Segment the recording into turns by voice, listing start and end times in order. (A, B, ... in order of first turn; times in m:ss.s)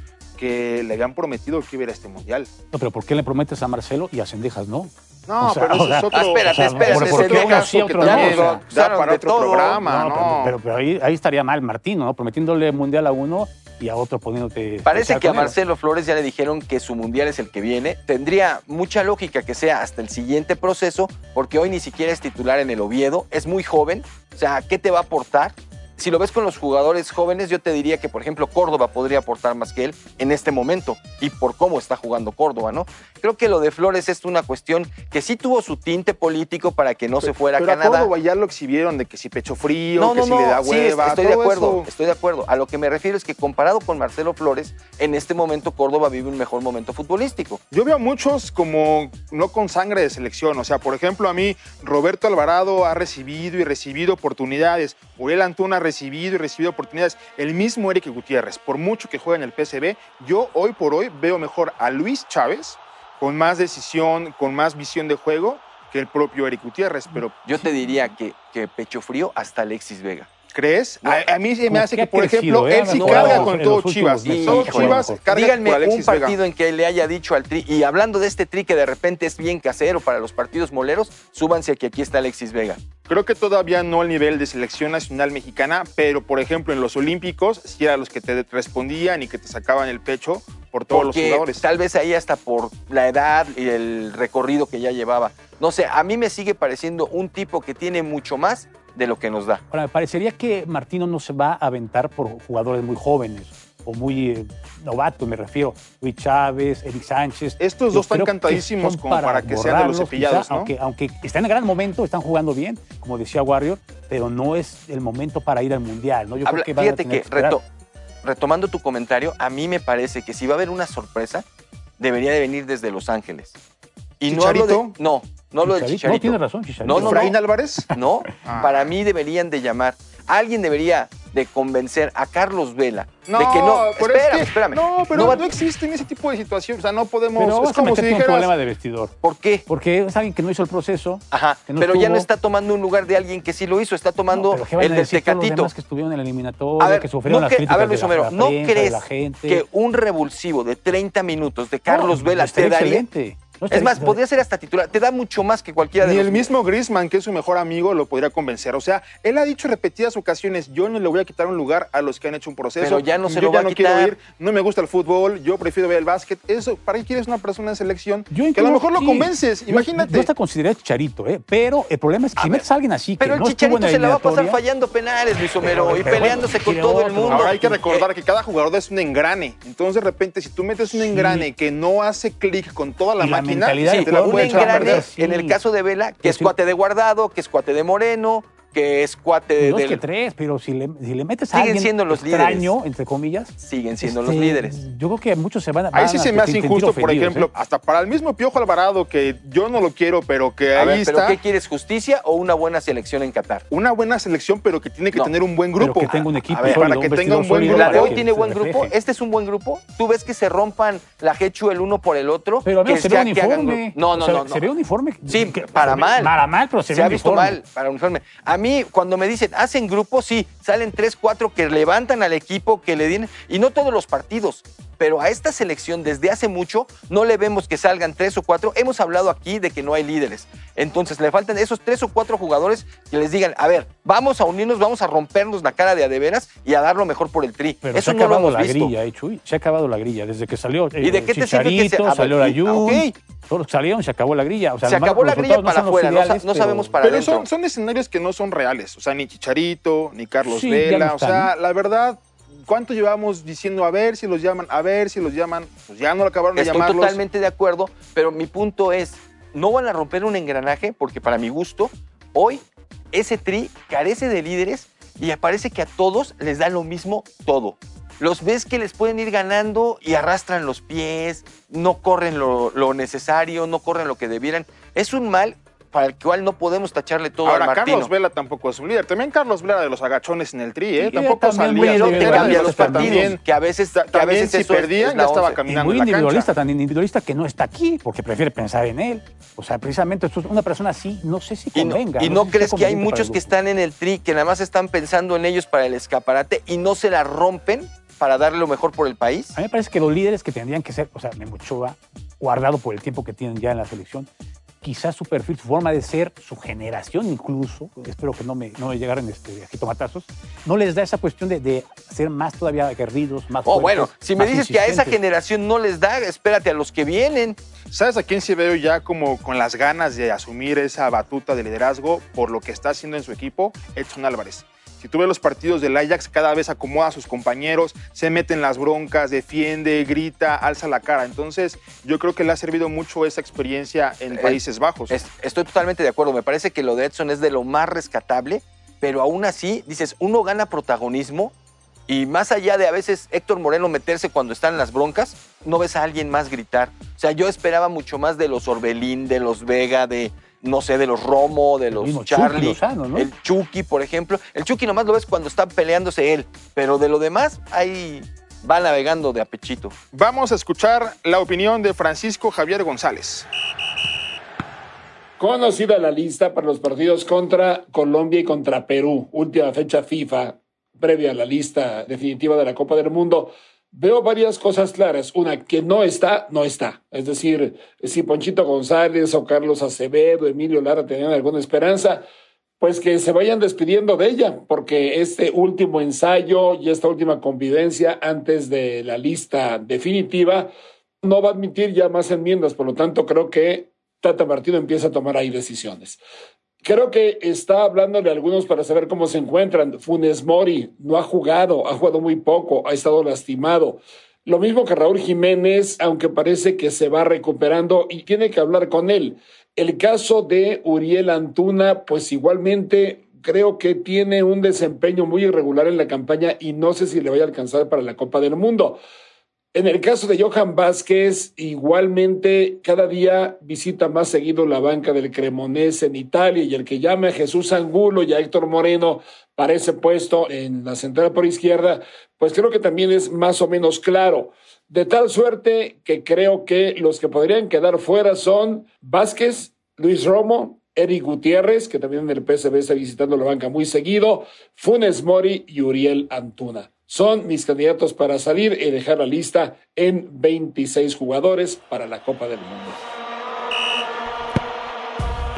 0:00.4-0:02.5 A
0:02.7-0:08.6 B
0:05.3-0:10.6 A
0:06.1-0:09.8 C
0:09.8-0:15.6 B
0:14.8-0:38.1 C
0:37.2-0:41.9 A
0:40.0-0:47.6 C
0:47.7-1:07.4 A
1:07.4-1:10.3 C
1:10.5-1:16.4 A
1:11.7-1:15.2 B
1:12.9-1:13.5 C
1:14.2-1:22.8 C
1:23.1-1:31.6 A
1:30.9-1:39.6 C
1:39.7-1:57.6 B
1:47.6-1:50.7 A
1:56.4-1:57.6 C
1:58.2-2:01.4 C
2:02.0-2:03.6 C
2:04.2-2:07.3 C
2:04.3-2:05.0 A
2:05.6-2:07.3 B
2:06.9-2:07.9 A
2:07.9-2:15.4 C
2:08.4-2:08.9 A
2:13.2-2:18.5 A
2:17.4-2:19.1 B
2:19.2-2:19.6 C
2:19.7-2:22.3 B
2:21.3-2:25.7 C
2:24.3-2:29.6 B
2:26.8-2:33.0 C
2:31.9-2:34.2 B
2:33.7-2:36.5 C
2:36.0-2:50.3 A
2:42.8-2:44.2 C
2:48.3-2:54.6 B
2:52.4-2:52.6 C
2:53.2-2:58.1 C
2:55.6-2:57.8 B
2:57.3-3:05.0 A
3:00.9-3:01.5 B
3:03.2-3:05.6 B
3:03.8-3:10.0 C
3:06.2-3:06.5 B
3:09.6-3:17.5 B
3:11.5-3:12.7 C
3:13.6-3:14.8 C
3:15.9-3:21.4 A
3:20.7-3:23.6 C
3:23.7-3:28.2 A
3:25.8-3:28.9 B
3:26.5-3:26.9 C
3:27.6-3:34.6 C
3:32.6-3:37.6 B
3:35.3-3:36.3 C
3:36.9-3:58.9 C
3:57.8-4:07.0 B
4:01.0-4:03.2 C
4:04.8-4:07.5 C
4:07.0-4:17.2 A
4:10.4-4:11.5 B
4:16.5-4:38.1 C
4:37.4-4:46.5 A
4:41.0-4:43.4 B
4:41.6-4:45.6 C
4:45.6-4:53.5 B
4:51.7-4:59.6 C
4:59.5-5:04.3 B
5:04.8-5:15.2 B
5:13.6-5:17.6 C
5:17.9-5:35.2 A
5:34.3-5:41.5 C
5:42.1-5:59.9 C
5:51.9-5:53.3 B
6:00.1-6:03.5 A
6:05.4-6:22.2 D
6:22.8-6:30.7 D
6:31.2-6:36.2 D
6:36.8-6:59.0 D
6:59.7-7:33.0 D